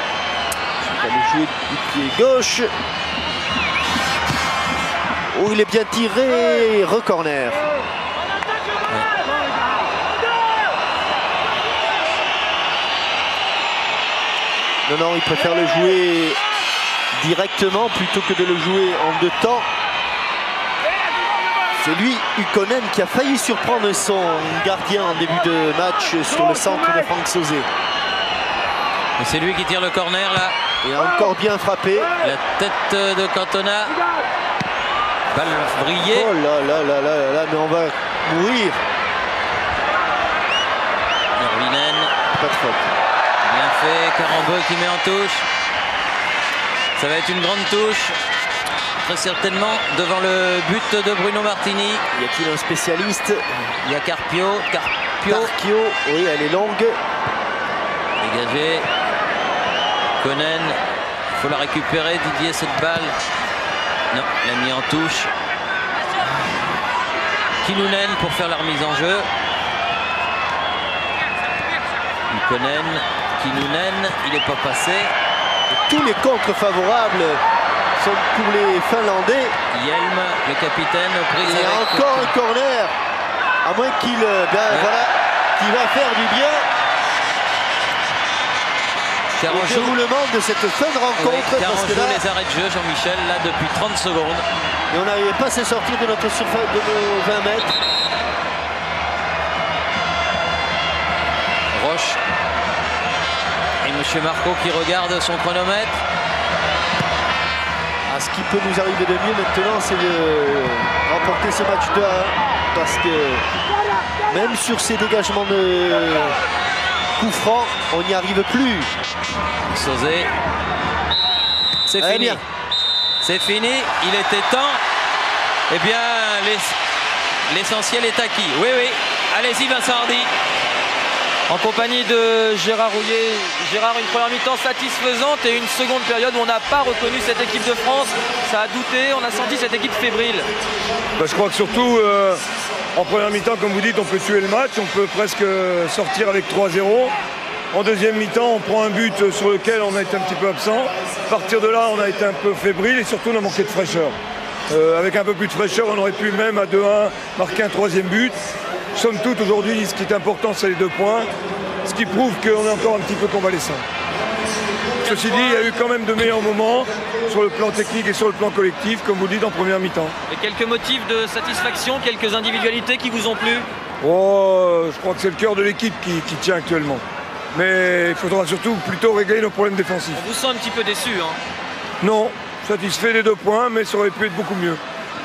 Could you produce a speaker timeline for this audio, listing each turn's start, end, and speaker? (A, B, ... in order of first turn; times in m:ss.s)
0:00.8-0:02.7 A
0:05.3-0:07.7 A
0:14.9-0:16.4 A
0:17.1-0:19.7 A
0:21.8-0:27.7 A
0:29.2-0:30.6 B
0:30.8-0:32.1 A
0:32.2-0:34.0 B
0:35.3-0:36.3 B
0:36.1-0:38.8 A
0:41.4-0:42.1 B
0:42.3-0:42.9 A
0:43.4-0:45.5 B
0:47.0-0:48.2 B
0:49.0-0:52.0 B
0:52.1-0:53.5 A
0:53.8-0:55.5 B
0:55.3-0:57.0 A
0:58.2-0:58.9 B
1:00.2-1:00.8 B
1:01.3-1:03.2 B
1:04.1-1:05.3 B
1:07.6-1:09.3 B
1:12.3-1:15.1 B
1:15.7-1:17.4 A
1:18.0-1:19.6 A
1:19.7-1:22.3 B
1:21.4-1:22.9 A
1:23.6-1:26.7 A
1:29.4-1:29.9 B
1:29.4-1:32.2 A
1:31.2-1:34.4 B
1:34.9-1:37.8 A
1:41.7-1:42.2 B
1:43.8-1:46.0 B
1:48.1-1:53.4 A
1:54.3-1:56.4 A
1:57.2-1:58.9 A
1:59.7-2:00.3 B
2:01.9-2:02.4 B
2:02.0-2:02.4 A
2:03.2-2:04.8 B
2:05.7-2:06.8 B
2:07.5-2:10.3 B
2:11.5-2:20.5 C
2:21.2-2:22.4 D
2:23.0-2:27.1 D
2:27.7-2:34.2 D
2:34.7-2:38.4 D
2:39.0-2:41.3 D
2:41.8-2:43.8 D
2:45.0-2:50.2 D
2:50.3-2:53.7 C
2:54.0-3:00.2 D
3:00.1-3:01.4 C
3:02.0-3:04.8 D